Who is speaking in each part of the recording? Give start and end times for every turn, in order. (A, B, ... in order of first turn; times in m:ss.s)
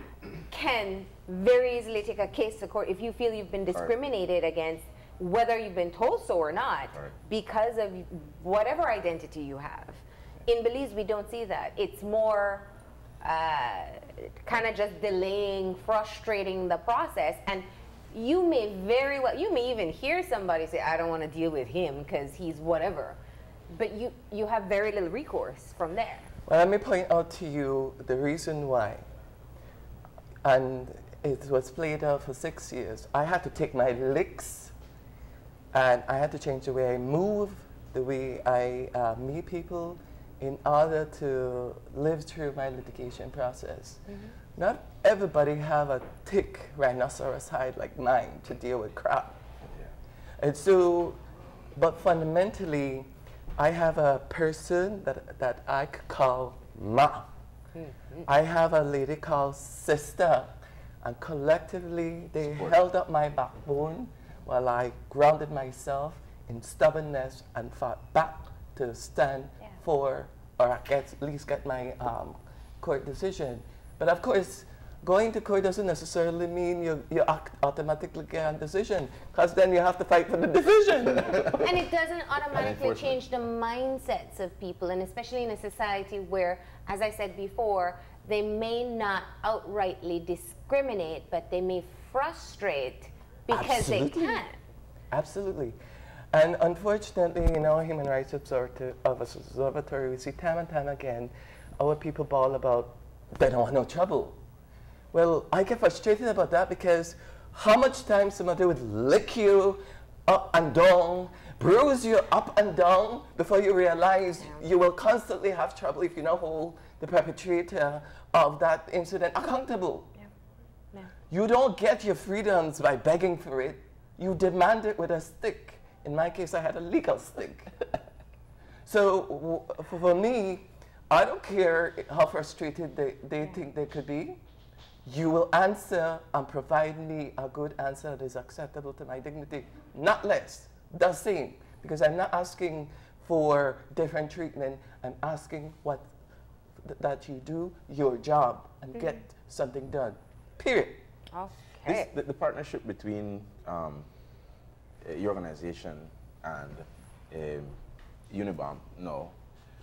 0:00.5-0:12.7 A
0:13.2-0:23.2 A
0:23.7-0:26.3 A
0:26.4-0:29.0 B
0:30.4-0:34.7 B
0:35.7-0:49.4 B
0:44.1-0:44.3 A
0:50.4-0:51.2 B
0:51.8-0:57.3 B
0:57.8-0:58.2 A
0:58.2-1:21.8 B
1:21.5-1:34.6 A
1:22.5-1:23.2 C
1:33.5-1:34.4 B
1:35.1-1:35.8 B
1:36.3-1:44.4 B
1:45.1-2:00.1 B
2:01.3-2:08.0 B
2:08.8-2:14.4 B
2:15.0-2:26.1 B
2:26.8-2:31.0 B
2:31.3-2:32.1 A
2:31.8-2:34.1 C
2:35.0-2:37.8 C
2:38.3-2:39.3 C